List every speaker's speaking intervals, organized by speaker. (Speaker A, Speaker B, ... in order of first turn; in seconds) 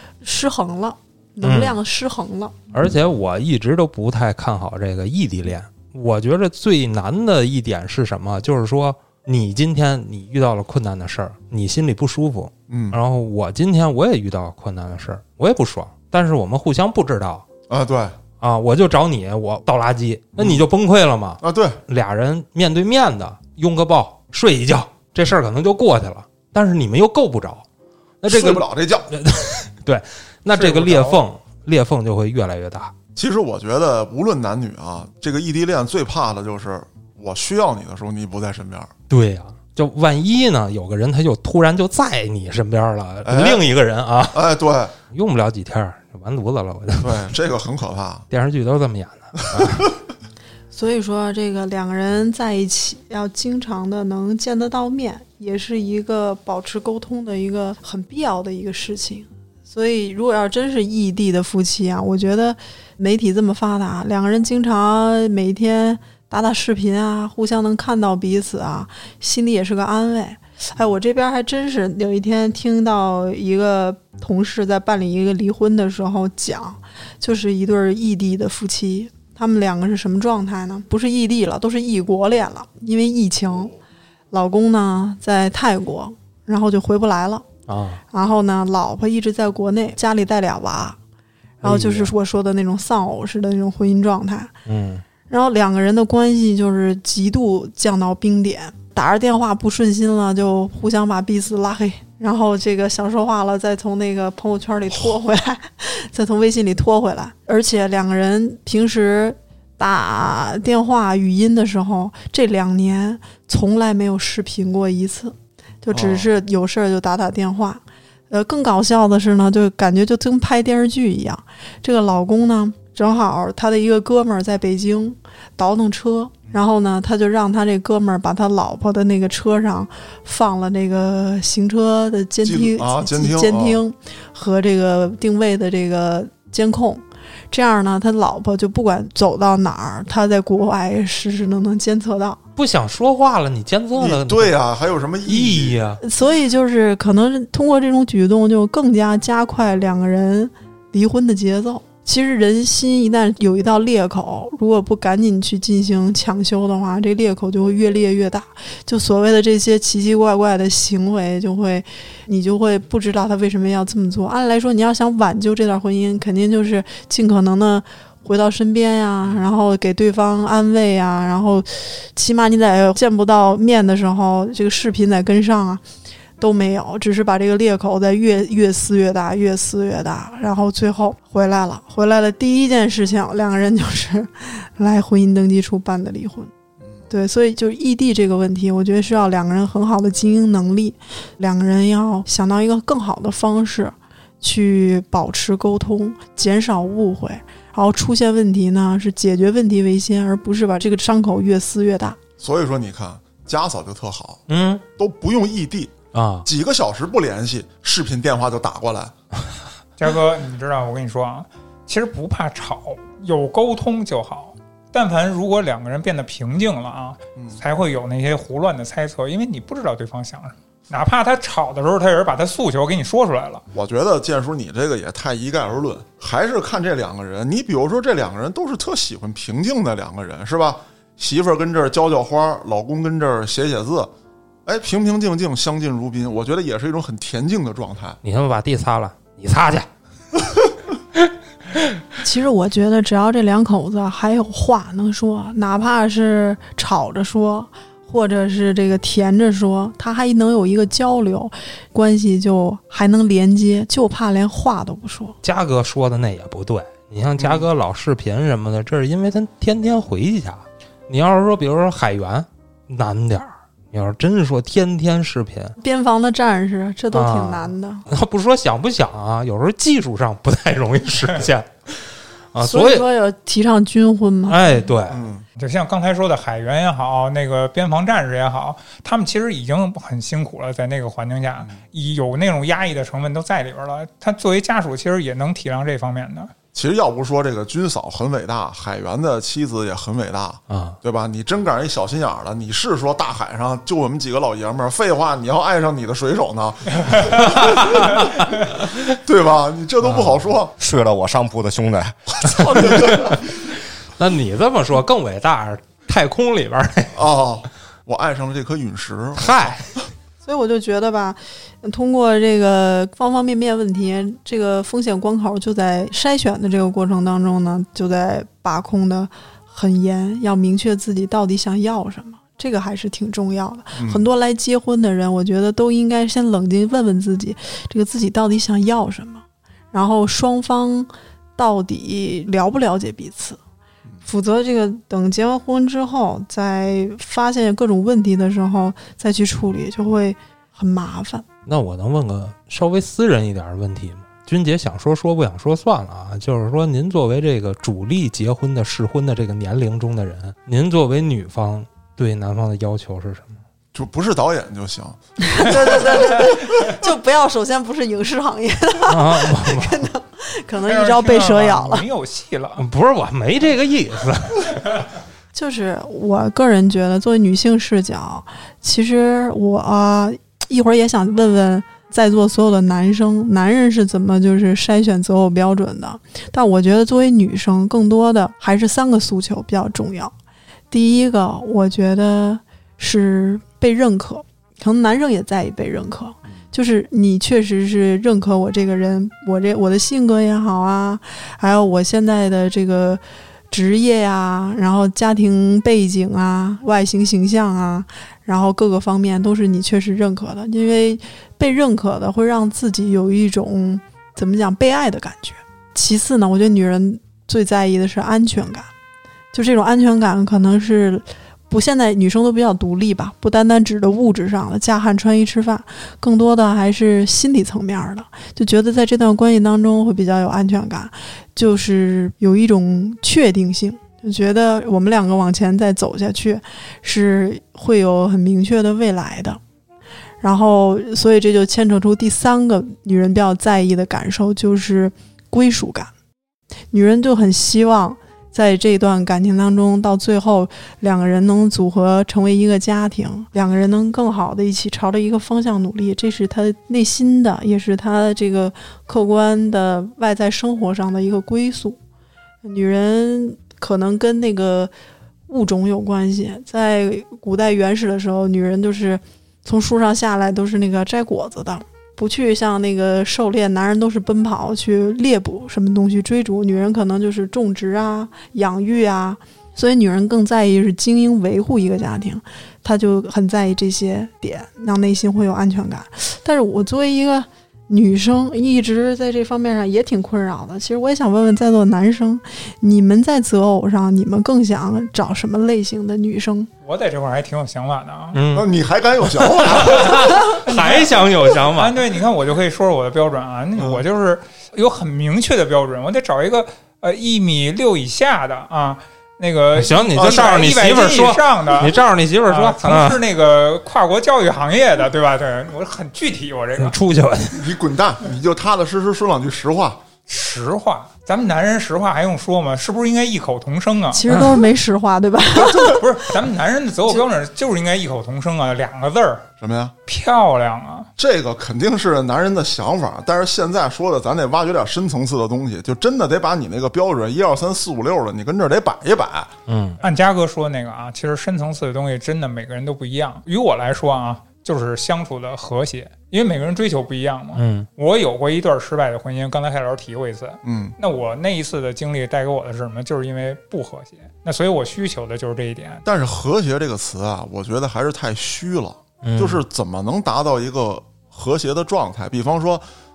Speaker A: 0.2-2.6, 50.7-83.8, 84.3-87.5, 88.1-91.0, 91.6-94.5, 95.3-142.4, 146.0-175.8, 176.4-186.5, 187.1-202.2, 242.2-255.4, 265.8-268.0, 272.6-274.8, 310.4-333.6, 334.2-341.4, 355.4-362.1, 365.5-380.3, 380.9-408.9, 409.5-429.6, 430.4-436.1, 436.9-452.0, 452.6-454.9, 455.5-486.7, 514.1-516.2
Speaker B: 1.4-1.8, 2.7-17.4, 18.4-27.6, 28.2-32.9, 39.1-44.4, 45.1-47.2, 48.3-49.9, 87.7-88.0, 91.6-92.1, 94.7-95.0, 142.6-144.5, 145.2-146.0, 204.5-204.8, 206.1-206.5, 238.2-239.9, 255.4-265.7, 267.1-271.7, 272.5-273.0, 274.5-275.2, 290.7-291.0, 304.2-307.2, 309.4-309.9, 341.6-353.6, 359.0-360.1, 362.8-365.0, 488.3-488.7, 489.3-492.0, 499.7-503.2, 506.8-507.7, 514.3-514.6, 529.7-530.0, 537.5-537.9, 549.2-549.6
Speaker C: 12.7-13.0, 17.7-18.2, 20.4-20.6, 21.4-21.8, 28.3-29.1, 33.1-38.9, 43.2-43.6, 44.3-44.9, 47.0-48.2, 49.5-49.9, 115.9-116.3, 132.4-133.8, 144.0-145.8, 202.4-204.4, 204.9-209.1, 223.7-234.1, 234.7-238.2, 257.4-257.7, 275.1-275.4, 286.7-298.3, 299.0-300.7, 302.3-303.5, 307.1-309.8, 323.9-324.2, 353.9-356.1, 488.5-490.4, 493.8-494.0, 507.5-510.0, 519.6-519.9, 521.2-529.5, 540.6-541.0, 546.0-552.8
Speaker D: 30.5-31.2, 210.0-223.6, 275.6-286.5, 360.9-362.8, 486.8-488.4, 490.6-507.0, 510.3-514.3, 515.8-519.5, 520.1-521.1, 530.0-546.0
Speaker E: 300.8-303.0